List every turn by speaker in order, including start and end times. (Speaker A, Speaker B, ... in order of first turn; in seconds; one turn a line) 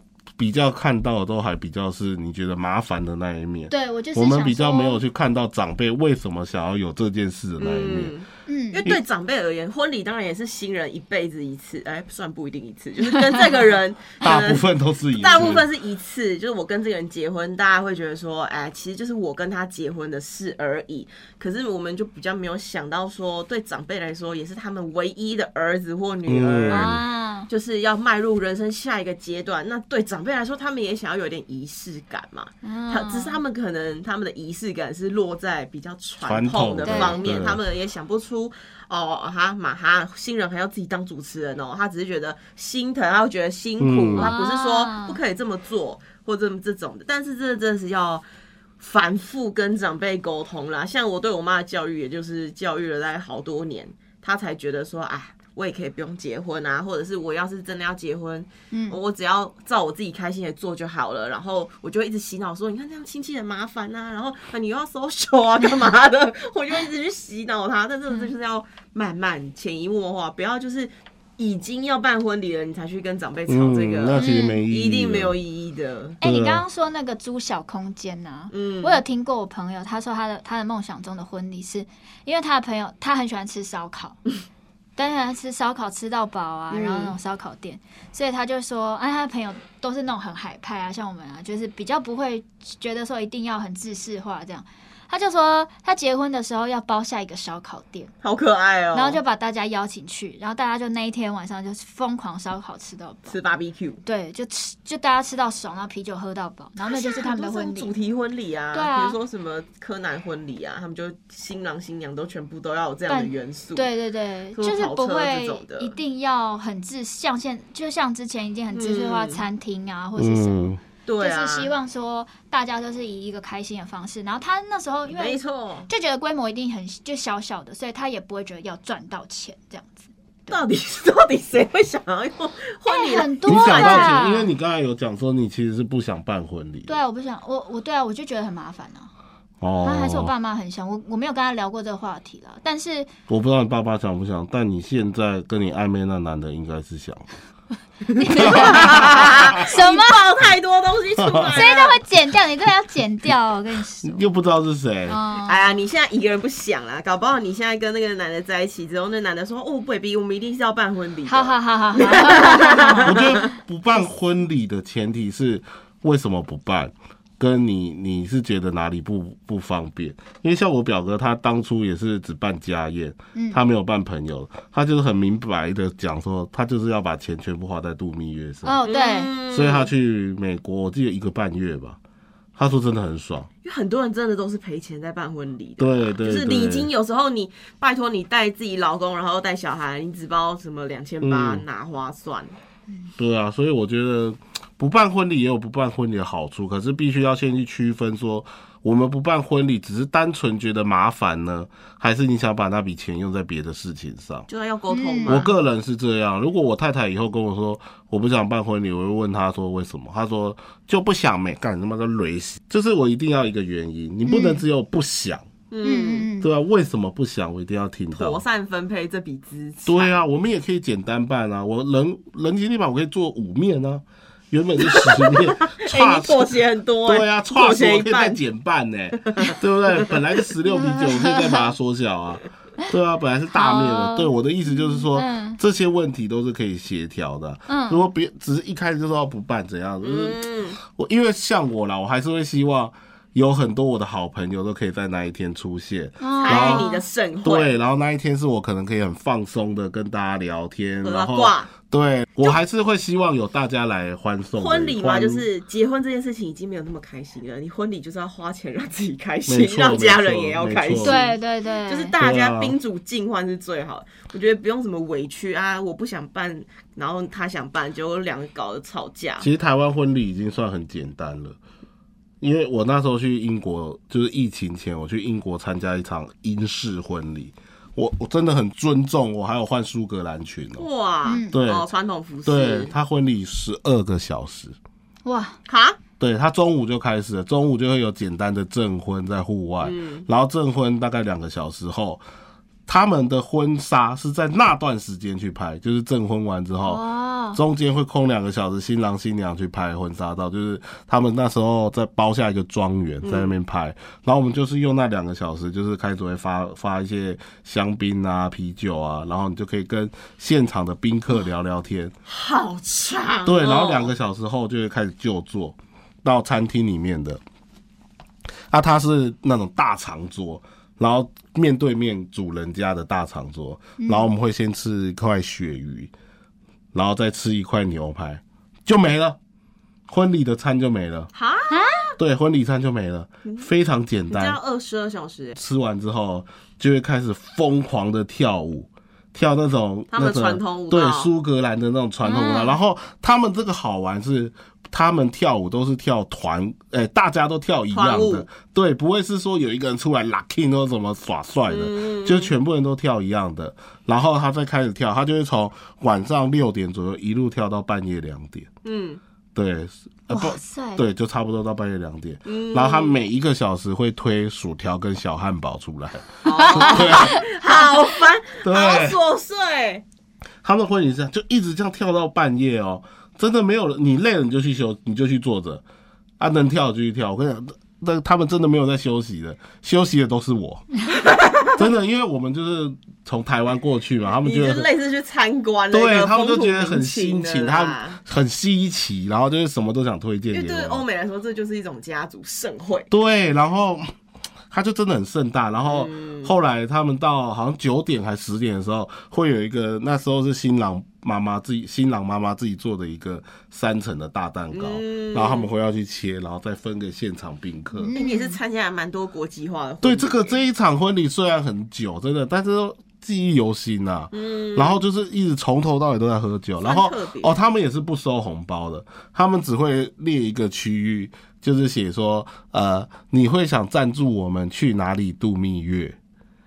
Speaker A: 0.4-8.1
Speaker B: 3.7-5.0
Speaker C: 7.6-48.2
Speaker B: 8.5-8.9
Speaker A: 14.2-15.6
Speaker A: 26.3-27.0
Speaker B: 26.7-27.5
Speaker B: 32.6-33.4
Speaker A: 36.2-37.6
Speaker B: 36.8-37.3
Speaker A: 43.8-44.3
Speaker B: 44.2-45.2
Speaker C: 48.8-76.2
Speaker B: 58.7-59.0
Speaker A: 73.5-75.4
Speaker B: 74.2-74.6
Speaker B: 76.2-84.2
Speaker A: 76.2-76.6
Speaker C: 78.5-79.0
Speaker B: 85.0-98.1
Speaker C: 86.7-87.2
Speaker C: 98.2-99.2
Speaker B: 98.9-103.4
Speaker C: 103.3-104.0
Speaker B: 104.1-107.9
Speaker C: 106.9-113.9
Speaker B: 108.7-109.2
Speaker B: 113.1-130.6
Speaker C: 114.5-116.0
Speaker C: 118.7-119.4
Speaker A: 120.2-120.8
Speaker C: 121.1-121.7
Speaker C: 125.1-125.9
Speaker C: 130.5-134.2
Speaker B: 132.9-134.5
Speaker A: 133.5-137.0
Speaker B: 136.9-139.1
Speaker A: 139.6-140.3
Speaker B: 139.8-143.1
Speaker A: 143.3-147.3
Speaker C: 148.2-152.0
Speaker B: 148.2-150.2
Speaker A: 148.4-149.5
Speaker A: 151.2-151.5
Speaker B: 151.5-154.3
Speaker A: 154.0-155.2
Speaker B: 155.1-155.8
Speaker C: 155.4-163.2
Speaker B: 161.3-163.5
Speaker A: 163.0-178.8
Speaker B: 173.3-173.6
Speaker B: 178.6-179.3
Speaker C: 178.8-179.9
Speaker A: 179.5-182.0
Speaker A: 182.6-183.5
Speaker C: 183.6-192.5
Speaker A: 185.8-186.9
Speaker A: 191.2-191.6
Speaker A: 193.2-204.5
Speaker C: 204.5-205.5
Speaker B: 204.9-205.5
Speaker A: 205.3-215.5
Speaker B: 214.3-214.6
Speaker C: 215.7-216.3
Speaker B: 215.8-216.5
Speaker A: 216.4-218.4
Speaker C: 218.1-220.2
Speaker A: 219.8-226.5
Speaker C: 224.8-228.4
Speaker A: 227.1-246.9
Speaker C: 229.1-230.1
Speaker B: 230.7-231.7
Speaker B: 233.5-235.6
Speaker B: 237.7-238.1
Speaker C: 240.0-240.8
Speaker B: 246.2-247.0
Speaker C: 246.4-247.8
Speaker A: 247.4-255.4
Speaker C: 251.0-251.7
Speaker C: 254.6-269.5
Speaker A: 259.5-261.2
Speaker B: 261.0-262.1
Speaker A: 262.2-262.8
Speaker A: 269.4-271.6
Speaker A: 272.4-280.9
Speaker C: 280.8-282.9
Speaker B: 281.2-281.5
Speaker A: 281.5-281.9
Speaker A: 282.4-284.8
Speaker B: 285.2-285.6
Speaker C: 285.7-286.0
Speaker A: 286.2-292.2
Speaker C: 289.8-290.3
Speaker A: 292.9-297.0
Speaker B: 296.8-297.6
Speaker A: 297.5-312.1
Speaker C: 303.2-303.5
Speaker C: 312.3-314.1
Speaker A: 313.4-317.4
Speaker A: 318.7-326.1
Speaker B: 324.0-324.3
Speaker A: 326.9-329.4
Speaker A: 330.1-331.3
Speaker C: 331.3-331.9
Speaker B: 331.7-332.1
Speaker A: 332.2-334.6
Speaker C: 334.3-335.6
Speaker A: 335.6-358.7
Speaker C: 340.1-341.3
Speaker B: 342.2-342.8
Speaker C: 347.9-348.5
Speaker C: 351.7-352.5
Speaker C: 358.8-359.2
Speaker A: 359.6-367.4
Speaker B: 360.3-361.0
Speaker C: 362.4-363.1
Speaker C: 366.4-370.0
Speaker B: 367.0-367.4
Speaker A: 368.6-369.2
Speaker A: 370.6-375.8
Speaker A: 376.4-380.9
Speaker C: 381.1-381.8
Speaker A: 381.8-384.9
Speaker C: 384.4-388.2
Speaker A: 385.9-391.0
Speaker C: 390.5-393.1
Speaker A: 393.1-394.1
Speaker A: 394.7-408.1
Speaker C: 395.8-396.5
Speaker C: 404.7-405.7
Speaker B: 407.9-408.6
Speaker C: 408.1-410.6
Speaker A: 410.0-426.2
Speaker C: 414.3-415.0
Speaker C: 416.8-417.6